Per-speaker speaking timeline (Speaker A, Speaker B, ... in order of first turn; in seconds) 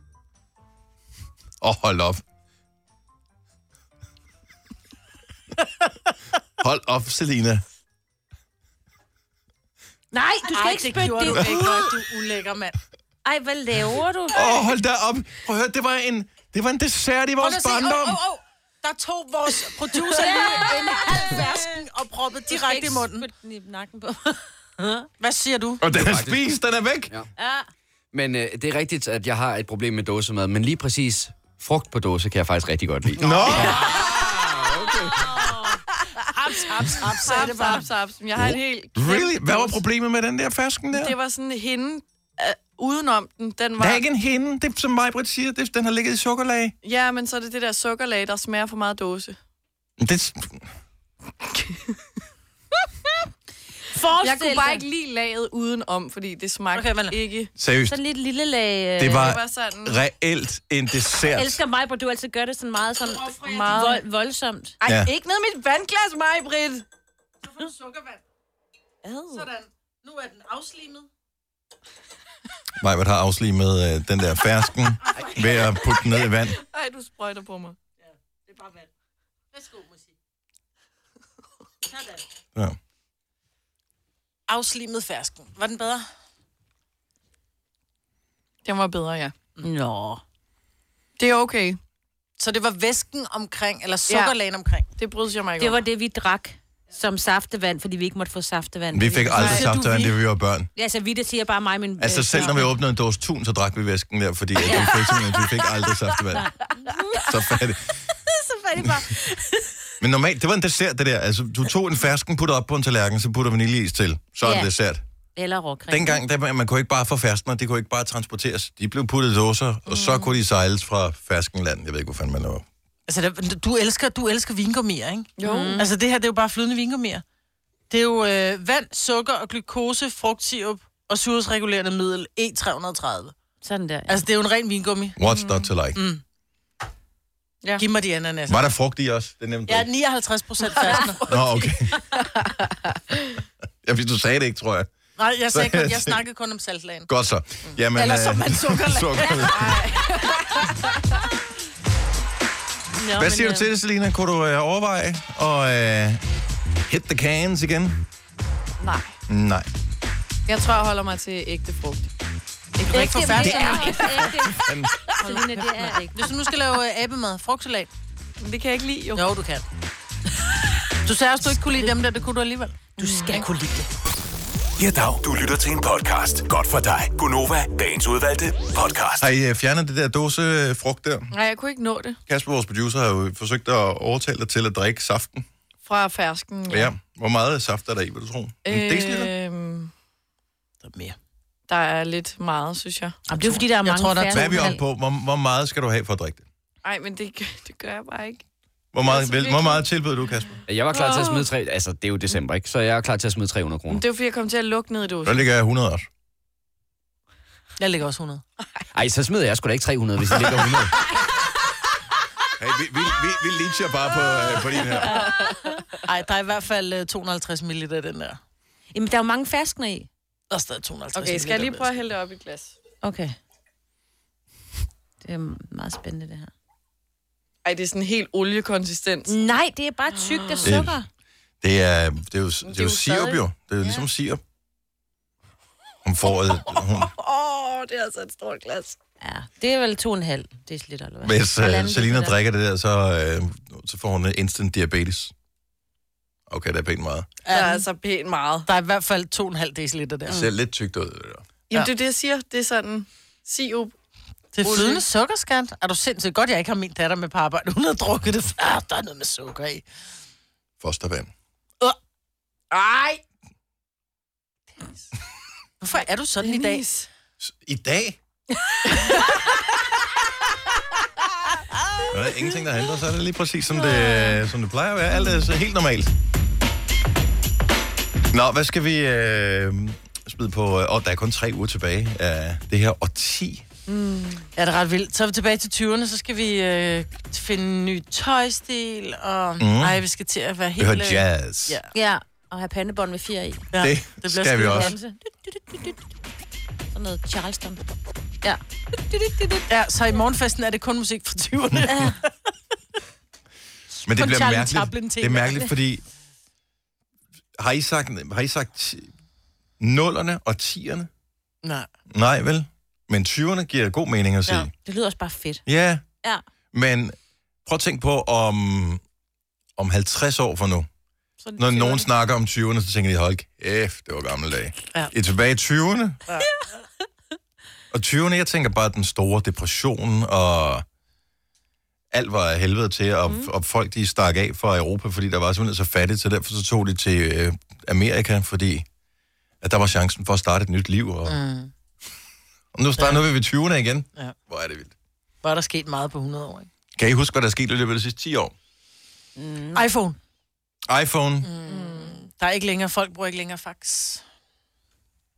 Speaker A: 1.6-2.2, 6.6-7.6, 11.2-11.9, 14.3-18.2, 25.8-27.1, 33.2-35.4, 38.3-41.1, 43.8-46.7, 50.0-50.6, 57.6-58.0, 59.0-61.6, 64.8-65.1, 72.8-76.6, 98.9-100.7, 102.0-106.5, 107.2-108.0, 110.0-115.0, 115.9-122.6, 135.2-136.0, 138.5-139.9, 141.2-141.9, 143.8-144.9, 145.5-146.2, 147.1-149.8, 153.1-156.2, 156.9-158.0, 159.3-159.7, 163.4-164.9, 179.2-181.3, 182.3-185.4, 186.7-189.3, 194.3-196.4, 198.9-200.6, 205.2-206.1, 212.6-215.2, 230.6-231.0, 231.6-234.4, 236.0-237.1, 241.2-245.3, 246.5-247.3, 250.3-251.4, 260.8-261.3, 267.4-268.2, 272.1-276.1, 278.3-283.6, 289.6-290.0, 290.8-291.8, 293.8-294.9, 304.1-306.0, 307.6-309.1, 309.8-311.1, 312.1-314.7, 315.6-316.0, 316.7-319.0, 319.8-320.9, 321.6-326.2, 327.9-330.8, 332.1-338.9, 339.6-341.4, 342.7-344.9, 346.9-348.5, 350.9-351.5
Speaker B: 10.1-12.8, 17.4-23.2, 25.2-25.8, 36.5-37.9, 56.7-57.2, 63.0-64.0, 67.4-68.2, 69.3-71.1, 75.0-75.8, 78.0-78.9, 79.5-80.1, 81.8-82.2, 84.5-86.0, 92.4-94.8, 99.4-100.2, 123.1-127.2, 127.9-133.3, 134.1-135.2, 135.9-136.2, 137.8-138.6, 139.7-141.2, 145.2-147.1, 147.9-149.7, 162.9-164.4, 165.2-167.9, 169.2-169.6, 171.0-173.5, 190.8-191.2, 193.3-194.7, 207.8-208.4, 216.0-218.4, 220.5-222.0, 247.4-247.8, 248.7-250.5, 254.5-259.8, 265.8-266.8, 284.6-291.9, 293.7-294.9, 299.7-302.3, 304.1-305.7, 326.3-326.6, 341.3-341.7, 345.4-346.7, 349.7-350.2, 351.4-354.2
Speaker C: 10.4-11.8, 13.2-14.5, 20.2-21.7, 22.5-25.1, 27.4-27.7, 33.4-33.9, 34.8-35.8, 36.3-36.7, 53.9-54.8, 57.9-59.4, 61.3-64.8, 89.6-90.2, 95.6-99.5, 100.7-102.7, 104.6-105.3, 106.3-107.3, 108.3-109.7, 114.4-114.7, 115.3-116.2, 125.4-125.9, 133.6-134.2, 153.0-153.7, 162.9-166.4, 173.0-173.8, 193.3-194.8, 218.9-220.1, 223.0-223.3, 225.2-226.5, 229.3-231.1, 239.2-242.3, 291.9-293.6, 294.6-296.0, 296.9-297.8, 298.4-299.6, 301.9-302.1, 314.8-315.6, 349.4-349.9
Speaker D: 25.9-26.4, 28.1-33.2, 200.7-204.0, 208.9-210.9
Speaker E: 33.2-33.9, 36.6-39.8, 40.9-44.0, 46.8-49.4, 51.5-51.8, 54.2-57.5, 59.1-60.0, 63.4-64.0, 64.8-66.8, 69.1-69.4, 76.6-77.8, 88.6-89.3, 91.2-91.8, 94.1-94.3, 95.0-95.8, 99.3-99.6, 119.9-120.3, 125.4-125.8, 135.2-135.7, 140.6-143.3, 149.3-151.2, 158.8-159.1, 160.5-162.1, 162.8-164.0, 168.4-169.3, 181.3-182.2, 185.8-186.9, 188.7-189.9, 191.7-193.2, 196.8-198.4, 199.0-199.8, 200.9-201.5, 203.9-205.4, 214.9-215.7, 221.1-222.8, 227.6-229.3, 230.3-230.7, 232.6-233.4, 236.2-239.0, 247.5-248.7, 251.7-253.9, 254.6-255.0, 262.7-263.2, 265.9-267.1, 268.7-269.6, 273.9-274.4, 283.9-284.5, 351.7-352.2
Speaker F: 174.8-179.2